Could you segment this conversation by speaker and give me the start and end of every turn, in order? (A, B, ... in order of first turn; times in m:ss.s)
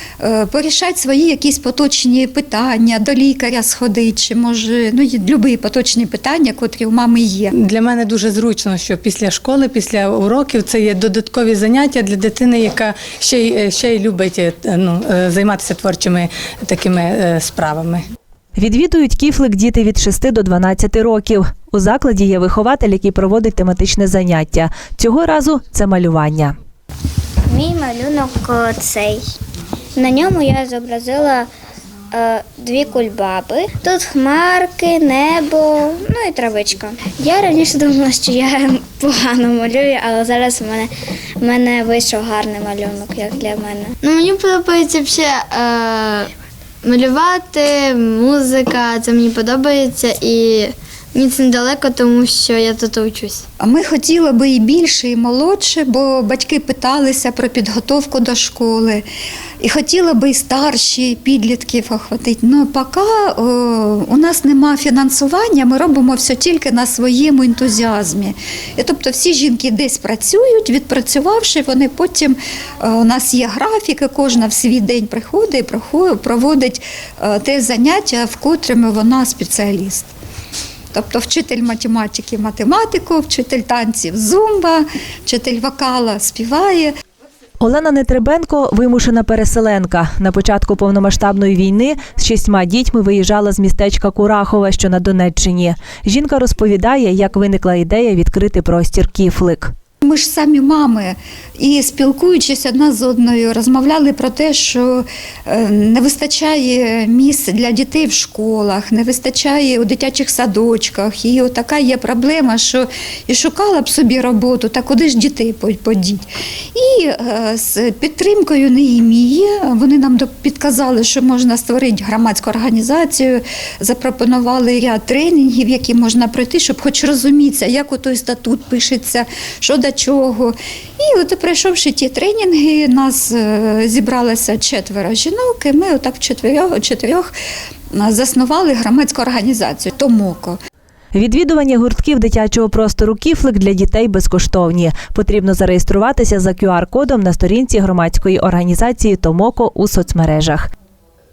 0:00.2-0:07.5 A
0:07.5-0:18.0 B
0:18.6-0:26.5 C
0:27.5-0:29.2 D
0:30.0-0:31.5 D
0:32.1-0:44.0 D
0:44.0-0:46.3 E
0:46.8-0:53.4 E
0:53.6-0:59.0 A
0:59.6-1:20.1 A
1:20.9-1:26.9 A
1:27.6-1:39.7 C
1:40.0-2:17.3 A
2:17.9-2:20.6 A
2:21.1-2:30.7 C